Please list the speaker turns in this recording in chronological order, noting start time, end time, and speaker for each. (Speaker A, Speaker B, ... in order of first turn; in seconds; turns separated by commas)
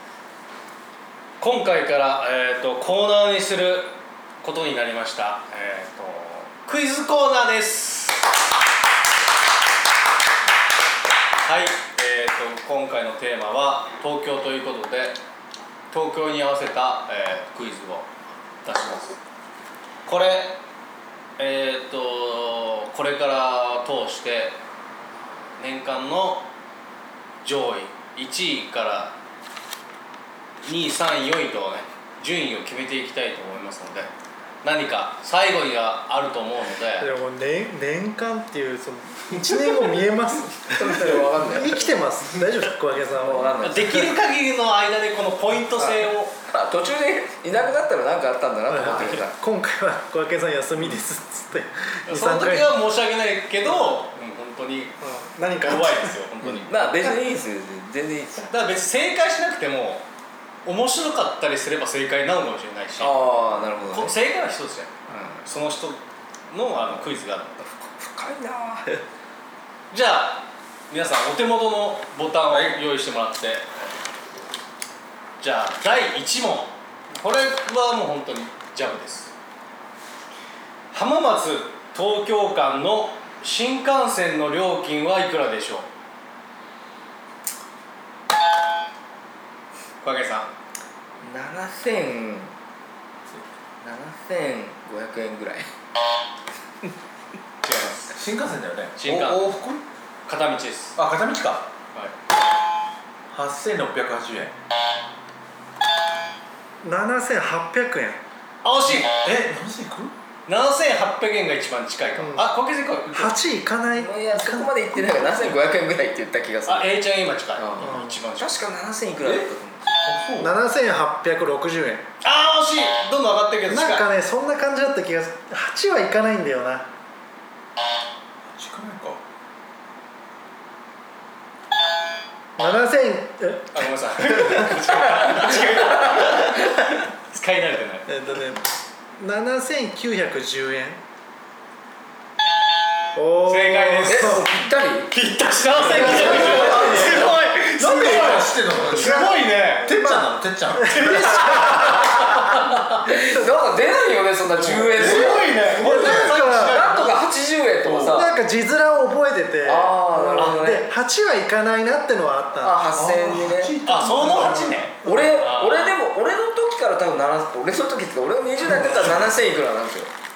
Speaker A: 1.4-8.2, Speaker A: 11.4-15.2, Speaker A: 15.9-19.2, Speaker A: 20.1-20.6, Speaker A: 21.4-24.6, Speaker A: 25.6-26.5, Speaker A: 27.4-29.1, Speaker A: 30.6-34.1, Speaker A: 34.6-37.1, Speaker B: 37.0-43.8, Speaker C: 40.7-41.9, Speaker C: 43.2-44.1, Speaker A: 43.6-46.4, Speaker C: 46.5-49.4, Speaker B: 48.7-52.8, Speaker A: 52.1-55.0, Speaker B: 53.7-54.0, Speaker B: 55.0-56.2, Speaker A: 55.6-57.1, Speaker C: 56.6-58.5, Speaker A: 58.5-60.0, Speaker A: 60.6-67.6, Speaker C: 63.0-64.2, Speaker C: 65.1-65.4, Speaker C: 67.6-69.0, Speaker A: 69.9-73.9, Speaker D: 72.5-72.8, Speaker A: 75.4-79.3, Speaker A: 80.9-85.9, Speaker A: 90.0-90.5, Speaker C: 91.2-92.5, Speaker C: 93.8-95.7, Speaker A: 97.6-98.1, Speaker D: 98.1-99.8, Speaker A: 99.0-99.6, Speaker A: 100.3-101.0, Speaker D: 101.0-101.7, Speaker D: 103.3-104.5, Speaker B: 106.8-108.2, Speaker A: 108.6-109.3, Speaker D: 109.0-110.1, Speaker A: 110.5-113.4, Speaker B: 112.2-112.5, Speaker B: 113.1-115.6, Speaker C: 114.0-116.9, Speaker A: 116.7-118.6, Speaker C: 117.6-120.0, Speaker B: 117.8-118.2, Speaker D: 119.2-119.5, Speaker D: 120.0-120.5, Speaker B: 120.4-122.1, Speaker A: 122.2-124.0, Speaker B: 123.7-126.9, Speaker D: 128.5-129.2, Speaker B: 132.6-133.9, Speaker A: 133.7-138.1, Speaker C: 135.2-136.8, Speaker B: 138.1-141.0, Speaker B: 143.2-144.5, Speaker A: 143.5-144.4, Speaker C: 144.1-145.1, Speaker A: 145.1-149.9, Speaker C: 145.8-147.3, Speaker D: 146.0-151.3, Speaker B: 148.9-151.8, Speaker A: 150.9-152.8, Speaker C: 151.4-155.6, Speaker A: 154.5-157.3, Speaker D: 154.9-156.4, Speaker B: 155.8-156.9, Speaker C: 156.4-158.3, Speaker B: 158.0-162.8, Speaker C: 159.7-160.9, Speaker A: 160.4-160.6, Speaker C: 162.6-163.8, Speaker D: 162.9-164.8, Speaker A: 163.8-166.0, Speaker B: 164.4-165.4, Speaker C: 165.0-170.1